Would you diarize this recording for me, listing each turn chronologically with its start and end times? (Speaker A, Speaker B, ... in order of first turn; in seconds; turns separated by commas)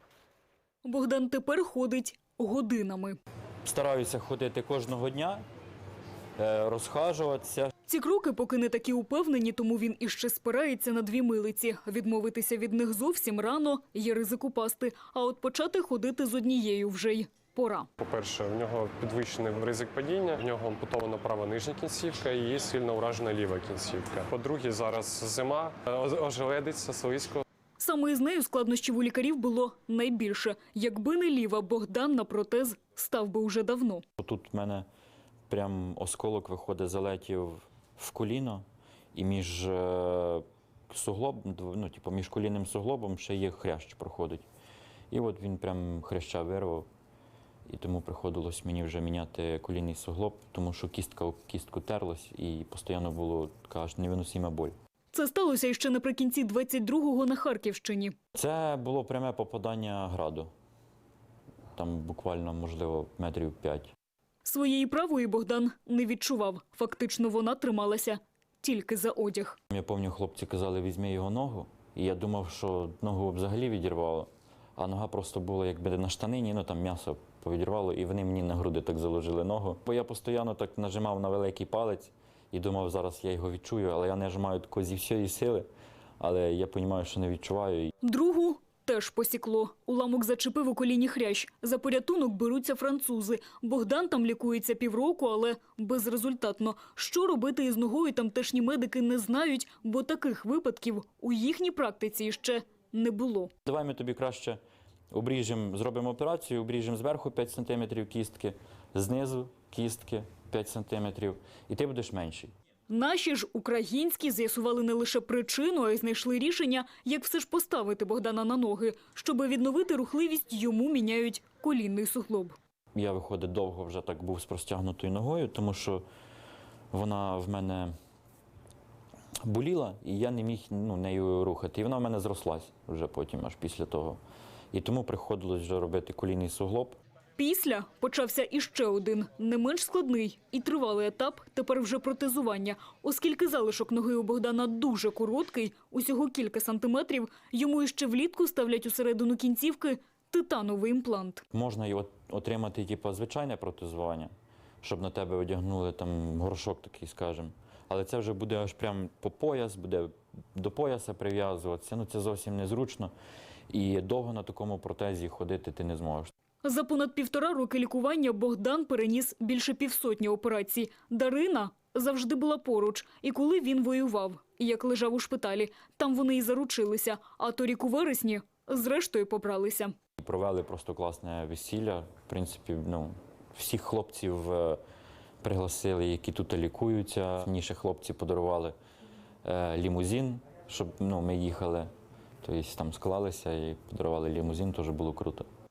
Speaker A: 0.8-3.2, Speaker B: 3.6-5.4, Speaker B: 6.4-7.7, Speaker A: 7.8-17.9, Speaker C: 18.0-27.4, Speaker A: 27.8-34.0, Speaker B: 34.2-34.9, Speaker B: 35.5-38.6, Speaker B: 39.1-44.5, Speaker B: 45.1-46.9, Speaker B: 47.7-54.7, Speaker A: 55.1-58.1, Speaker B: 58.3-60.5, Speaker B: 61.7-63.9, Speaker A: 64.4-69.6, Speaker B: 69.7-85.7, Speaker B: 86.2-87.9, Speaker A: 88.0-103.5, Speaker B: 103.6-104.6, Speaker B: 105.1-112.5, Speaker A: 112.9-122.5, Speaker B: 122.9-126.0, Speaker B: 126.9-127.9, Speaker B: 129.4-134.2, Speaker B: 134.7-137.0, Speaker A: 137.4-151.4, Speaker B: 151.5-154.3, Speaker B: 154.8-163.1, Speaker B: 163.7-166.3, Speaker A: 166.6-179.9, Speaker B: 180.2-184.8, Speaker B: 185.4-188.7, Speaker B: 189.4-191.9, Speaker B: 192.4-195.5